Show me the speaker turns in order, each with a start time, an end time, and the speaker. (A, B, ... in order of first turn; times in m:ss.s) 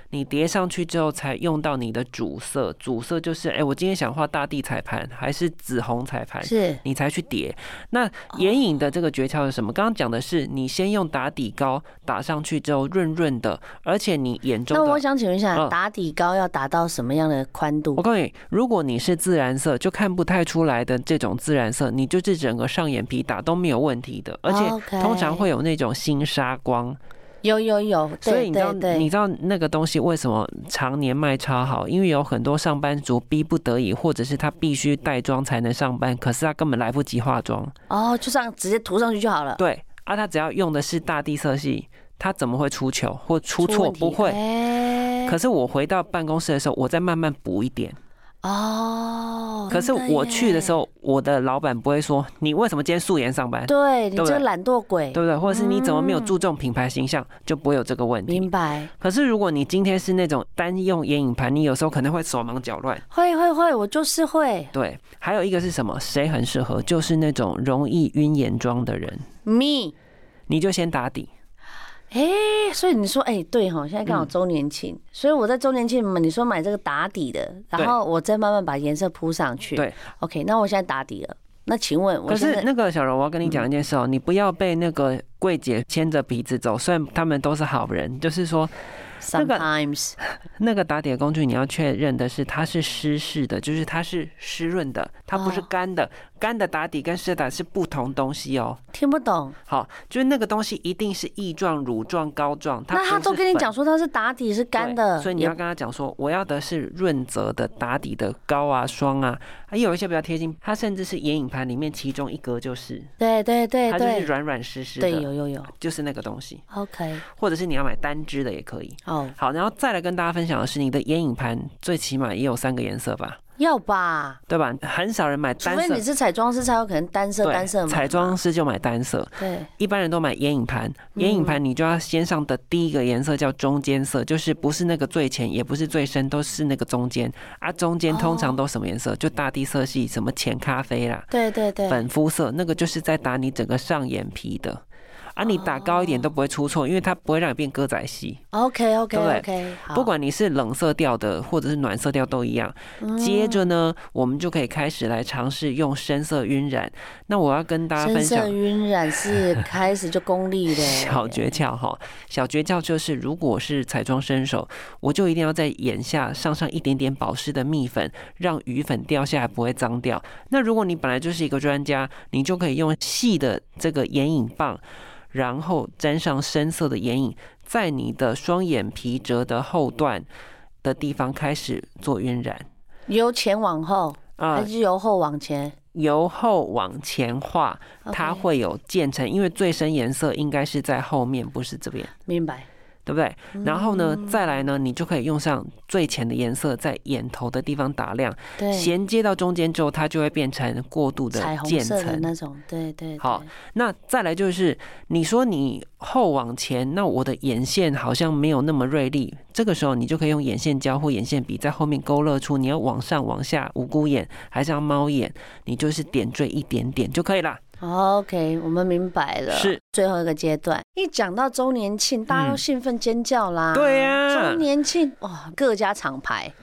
0:00.1-0:15.0 A
0:06.4-0:06.8 B
0:14.7-0:18.0 B
0:18.0-0:27.0 A
0:24.5-0:25.5 B
0:27.4-0:29.1 B
0:28.2-0:37.7 A
0:37.9-0:39.6 B
0:39.6-0:44.4 A
0:43.6-0:45.4 B
0:45.3-0:48.0 A
0:48.4-0:50.8 B
0:49.7-0:54.4 A
0:53.7-0:56.3 B
0:55.1-0:58.5 A
0:58.3-0:58.9 B
0:59.0-1:03.0 A
1:03.1-1:04.7 B
1:04.7-1:09.3 A
1:09.4-1:10.0 B
1:10.5-1:11.3 A
1:12.1-1:22.7 B
1:14.1-1:14.3 A
1:22.3-1:28.7 A
1:29.2-1:30.2 B
1:29.3-1:29.7 A
1:30.2-1:38.8 A
1:35.3-1:35.7 B
1:38.9-1:39.6 B
1:39.7-1:43.7 A
1:42.9-1:45.6 B
1:44.8-1:53.1 A
1:53.2-1:54.3 B
1:53.9-1:56.6 A
1:55.0-1:55.7 B
1:56.7-1:57.2 B
1:57.3-2:03.4 A
1:59.1-1:59.4 B
2:03.6-2:04.4 B
2:04.5-2:06.0 A
2:05.6-2:08.4 B
2:07.4-2:21.3 A
2:09.4-2:09.7 B
2:11.2-2:11.6 B
2:18.1-2:18.6 B
2:21.3-2:22.1 B
2:21.9-2:24.8 A
2:25.4-2:28.4 A
2:25.4-2:26.3 B
2:28.5-2:30.1 B
2:29.1-2:38.6 A
2:33.0-2:33.7 B
2:38.0-2:41.4 B
2:40.7-3:00.3 A
3:00.8-3:02.7 A
3:03.1-3:05.8 B
3:04.4-3:04.7 A
3:05.9-3:12.1 A
3:08.1-3:08.4 B
3:12.3-3:12.7 B
3:13.1-3:22.3 A
3:13.5-3:14.4 B
3:18.6-3:18.9 B
3:21.3-3:23.5 B
3:23.2-3:37.6 A
3:37.8-3:46.5 B
3:39.5-3:39.8 A
3:42.3-3:42.6 A
3:43.7-3:44.7 A